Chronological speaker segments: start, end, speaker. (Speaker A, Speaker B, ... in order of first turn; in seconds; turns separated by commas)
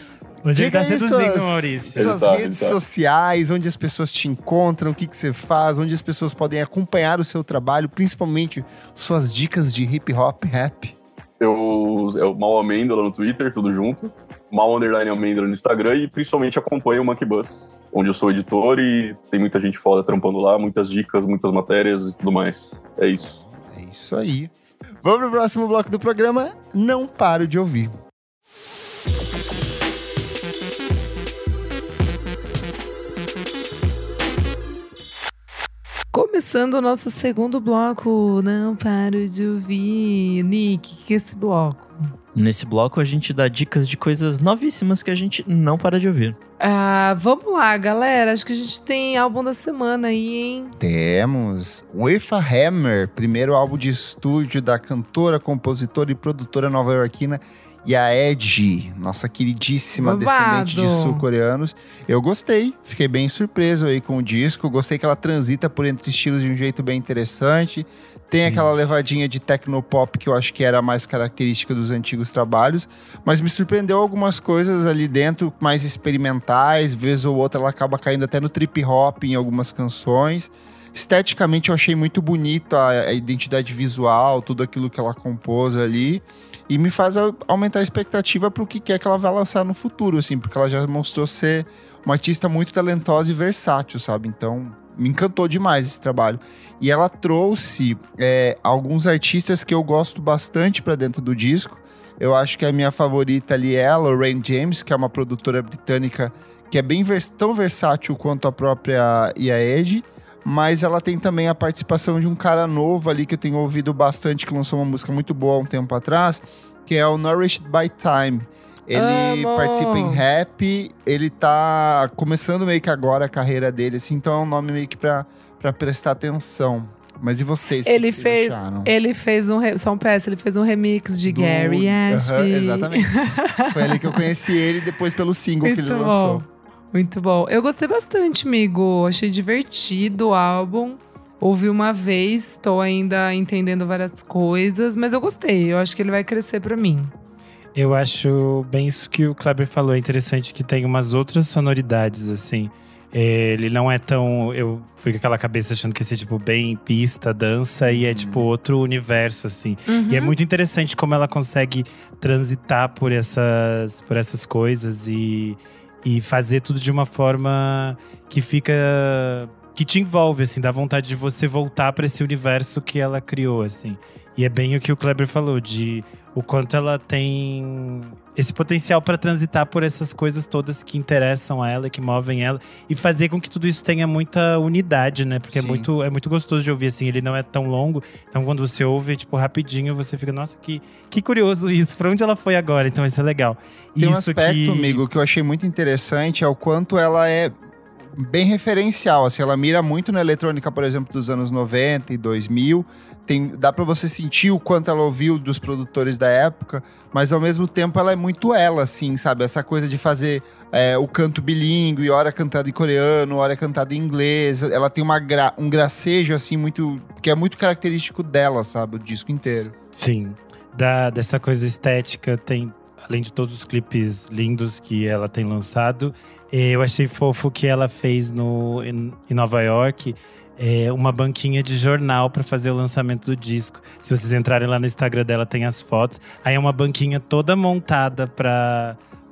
Speaker A: 0.4-2.1, Speaker B: 0.5-11.0, Speaker C: 1.9-2.8, Speaker C: 11.4-23.3, Speaker B: 23.2-27.9, Speaker D: 36.1-42.1, Speaker E: 42.3-46.4, Speaker D: 46.6-50.7, Speaker B: 50.8-128.9, Speaker D: 60.0-61.2, Speaker D: 118.9-120.2, Speaker D: 127.8-134.2, Speaker B: 131.2-136.4, Speaker D: 135.6-147.1, Speaker A: 147.7-195.0, Speaker B: 157.8-158.5, Speaker D: 159.9-160.3, Speaker B: 185.5-185.9, Speaker B: 194.0-197.6, Speaker B: 198.1-219.7, Speaker A: 219.9-239.0